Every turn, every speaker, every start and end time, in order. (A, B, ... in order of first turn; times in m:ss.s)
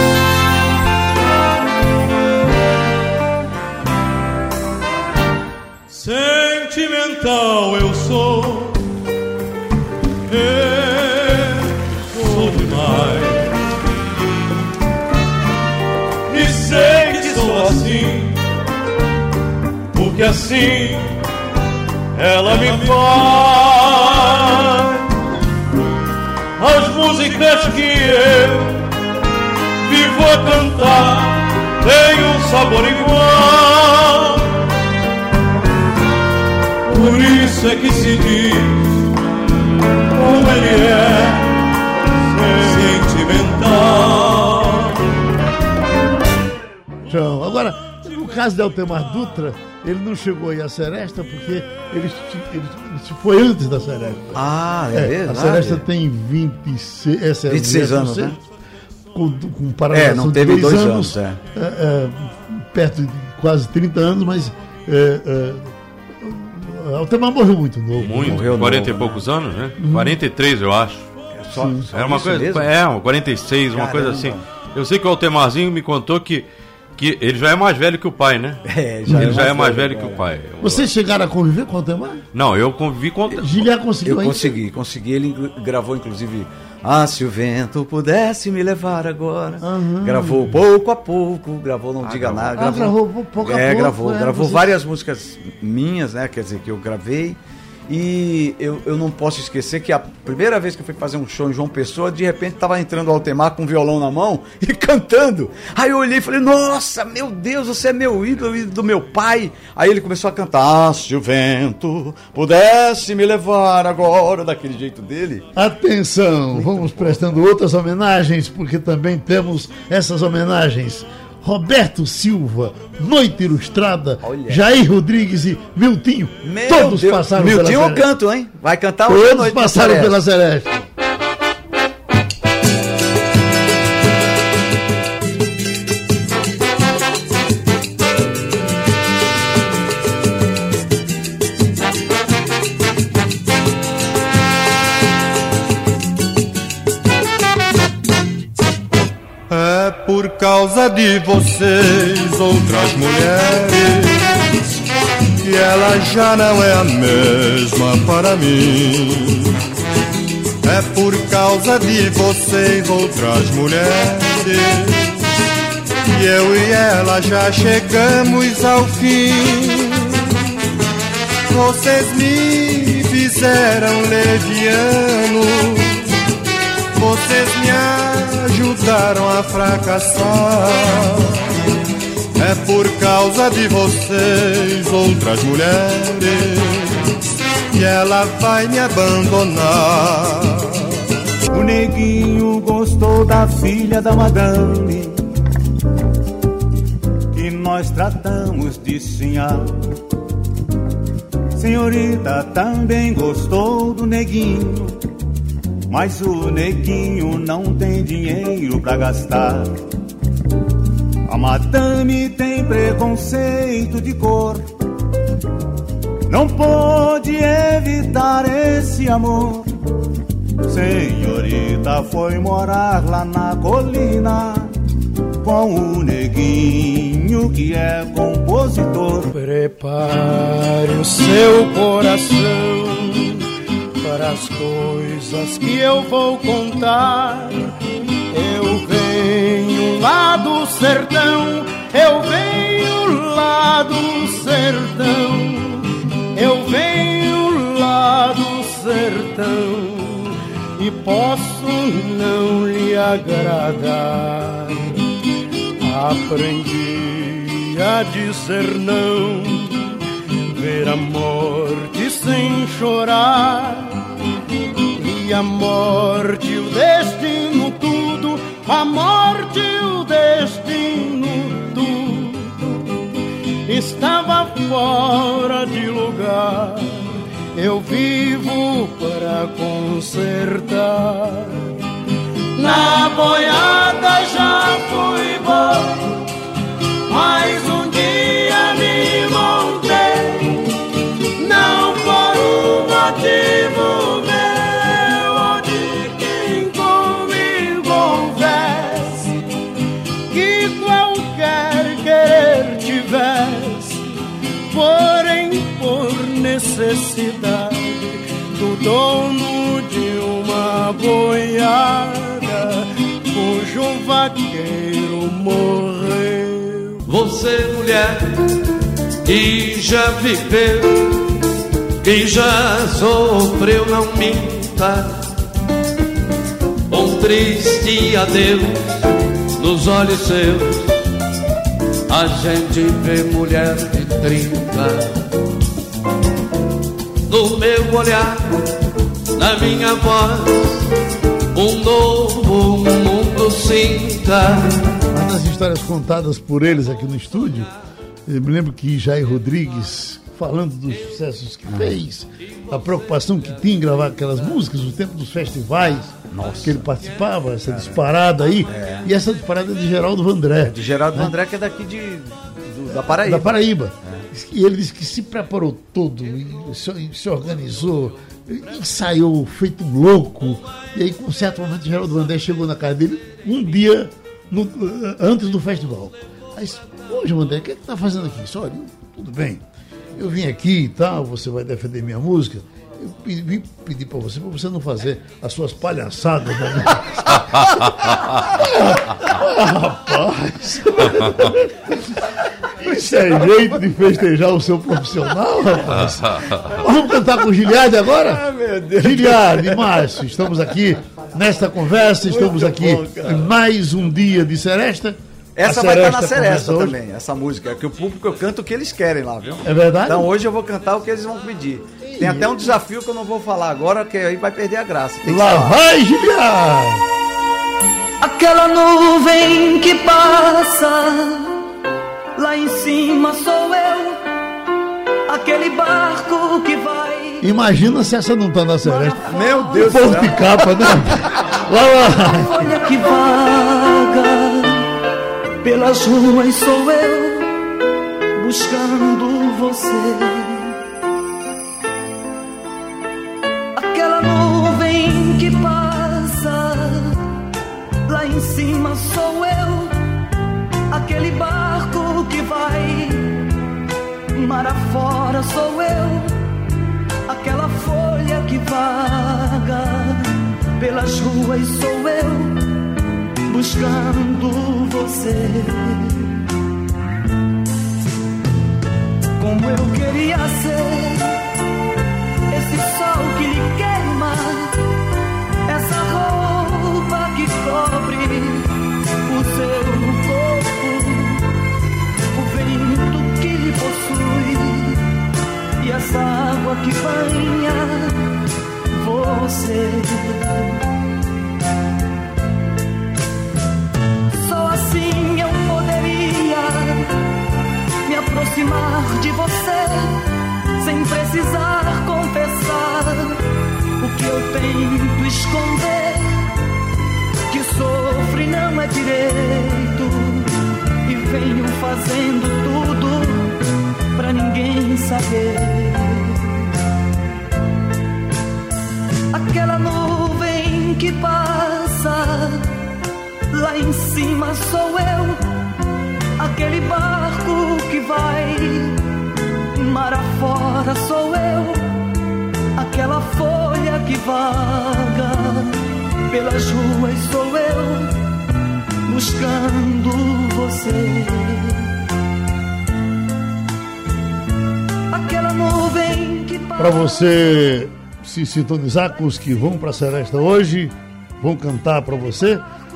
0:05.9-0:08.8 A
0:10.3-0:13.6 A
0:16.3-0:18.3 A
0:19.9-0:21.2 A
0:22.1-0:25.0 A
0:26.6-0:28.8 A
0:29.8-0:34.4 A
0:36.8-0:39.1 A
0:40.1-0:41.5 A
0:42.2-0:45.0 A
0:47.1-0:58.4 B
0:54.3-0:55.8 C
0:57.5-0:58.4 C
0:59.1-1:08.7 B
0:59.9-1:01.4 C
1:08.0-1:11.1 D
1:08.1-1:09.2 C
1:09.8-1:10.2 B
1:11.3-1:12.7 C
1:11.5-1:11.8 B
1:11.9-1:18.6 D
1:13.7-1:14.4 C
1:18.6-1:20.3 C
1:19.1-1:19.4 B
1:19.1-1:20.9 D
1:20.6-1:22.2 B
1:22.3-1:23.7 D
1:23.4-1:24.5 B
1:24.0-1:55.5 C
1:29.6-1:30.6 B
1:32.0-1:32.8 D
1:32.6-1:34.7 B
1:55.6-2:08.0 B
1:56.5-1:57.3 C
2:04.2-2:04.6 C
2:06.4-2:10.2 C
2:09.1-2:10.9 B
2:29.5-2:34.4 E
2:35.4-2:39.5 E
2:40.6-2:45.2 E
2:46.0-2:50.2 E
2:51.5-2:56.0 E
2:56.9-3:01.4 E
3:02.3-3:07.0 E
3:07.7-3:10.8 E
3:11.5-3:15.2 F
3:17.3-3:19.7 F
3:21.5-3:25.0 F
3:25.9-3:29.7 F
3:31.3-3:34.7 F
3:36.3-3:39.7 F
3:40.6-3:44.7 F
3:45.4-3:49.3 F
3:49.3-3:53.4 G
3:54.0-3:57.7 G
3:58.3-4:15.0 G
4:15.8-4:20.0 G
4:20.5-4:24.0 G
4:24.9-4:32.7 G
4:33.6-4:41.7 G
4:42.5-4:46.2 G
4:47.1-4:50.6 G
4:51.4-4:59.3 G
5:00.3-5:04.0 G
5:04.7-5:17.0 G
5:17.1-5:18.3 H
5:19.2-5:21.1 H
5:22.0-5:25.2 H
5:26.9-5:28.8 H
5:29.6-5:30.8 H
5:32.1-5:35.1 H
5:37.3-5:38.5 H
5:39.4-5:40.8 H
5:41.5-5:44.7 H
5:45.1-5:47.7 B
5:48.3-6:01.3 B
5:51.7-5:52.0 C
5:56.3-5:56.8 C
5:57.7-5:58.0 C
5:58.7-5:59.1 C
6:00.6-6:04.3 C
6:02.9-6:19.6 B
6:20.2-6:32.0 B
6:32.8-6:38.4 B
6:33.1-6:33.6 C
6:35.9-6:36.7 D
6:38.3-6:40.2 C
6:39.0-6:46.9 B
6:42.2-6:43.5 C
6:45.6-6:55.8 C
6:49.6-6:50.3 B
6:52.1-6:52.7 B
6:55.2-6:57.0 B
6:58.2-7:01.6 I
7:02.4-7:04.2 I
7:05.3-7:07.5 I
7:07.4-7:12.7 B
7:08.8-7:10.3 I
7:09.2-7:11.2 C
7:11.8-7:14.9 I
7:15.6-7:17.5 I
7:18.4-7:20.8 I
7:23.7-7:27.2 I
7:28.1-7:29.9 I
7:30.9-7:33.3 I
7:34.3-7:36.3 I
7:37.3-7:42.5 I
7:43.5-7:46.4 I
7:49.4-7:51.3 I
7:52.5-7:54.7 I
7:55.7-7:58.7 I
7:59.2-8:01.4 I
8:02.3-8:05.0 I
8:05.8-8:08.2 I
8:08.9-8:10.8 I
8:14.3-8:17.0 I
8:18.0-8:20.2 I
8:20.8-8:23.4 I
8:24.0-8:26.3 I
8:27.5-8:30.5 I
8:31.0-8:33.5 I
8:34.1-8:36.5 I
8:39.3-8:42.7 I
8:43.5-8:45.4 I
8:46.4-8:49.0 I
8:49.7-8:51.8 I
8:52.8-8:55.7 I
8:56.3-8:58.1 I
8:59.0-9:01.8 I
9:05.1-9:07.3 I
9:06.8-9:12.6 B